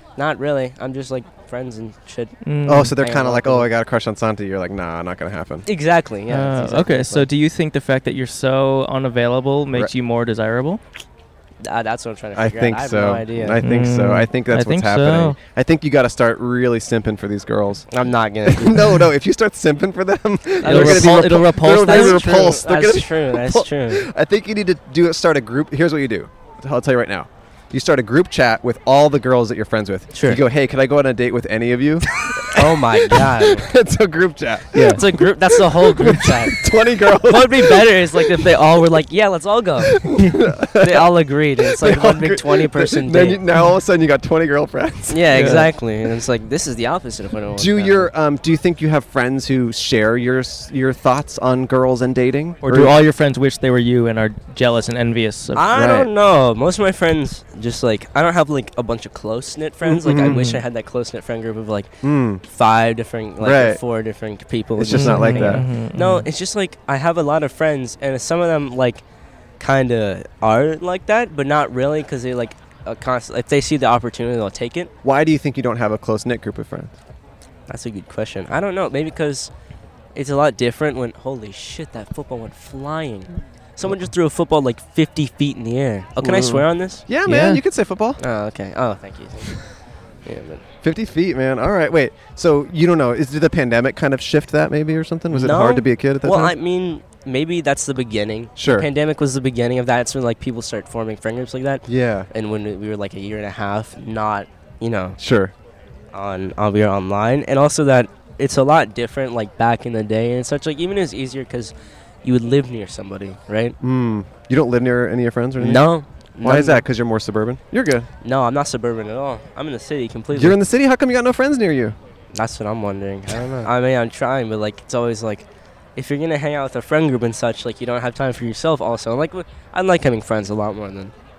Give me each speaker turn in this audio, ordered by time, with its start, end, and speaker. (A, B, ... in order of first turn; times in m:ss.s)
0:00.2-0:03.7 A
0:02.4-0:02.9 B
0:02.7-0:05.7 C
0:05.6-0:07.3 A
0:06.3-0:10.8 B
0:11.6-0:13.6 A
0:12.4-0:17.9 C
0:13.6-0:15.4 B
0:17.9-0:18.9 A
0:18.5-0:38.7 C
0:20.6-0:24.1 A
0:20.6-0:22.5 B
0:30.1-0:30.4 A
0:32.4-0:33.7 A
0:34.7-0:35.0 B
0:34.8-0:40.1 A
0:39.8-0:45.7 C
0:40.8-0:43.4 A
0:45.1-0:48.1 A
0:45.3-0:45.7 B
0:47.5-0:53.0 C
0:52.6-0:55.7 B
0:55.5-1:01.9 A
0:55.7-0:56.1 C
0:59.8-1:00.4 C
1:00.2-1:00.6 B
1:02.0-1:02.4 C
1:02.4-1:09.0 A
1:03.4-1:03.8 C
1:04.8-1:05.6 C
1:04.9-1:06.3 B
1:09.6-1:14.9 A
1:15.0-1:17.0 C
1:17.7-1:19.5 A
1:20.2-1:27.0 A
1:26.2-1:28.2 C
1:27.2-1:27.6 B
1:28.2-1:29.7 A
1:30.2-1:30.6 A
1:30.8-1:36.6 C
1:35.3-1:45.2 A
1:38.6-1:38.9 C
1:41.9-1:42.3 C
1:45.2-1:45.5 C
1:46.1-1:53.8 A
1:53.8-1:55.9 C
1:55.6-1:56.8 A
1:56.4-1:58.1 C
1:58.2-2:00.6 A
2:00.3-2:02.0 C
2:02.3-2:11.1 A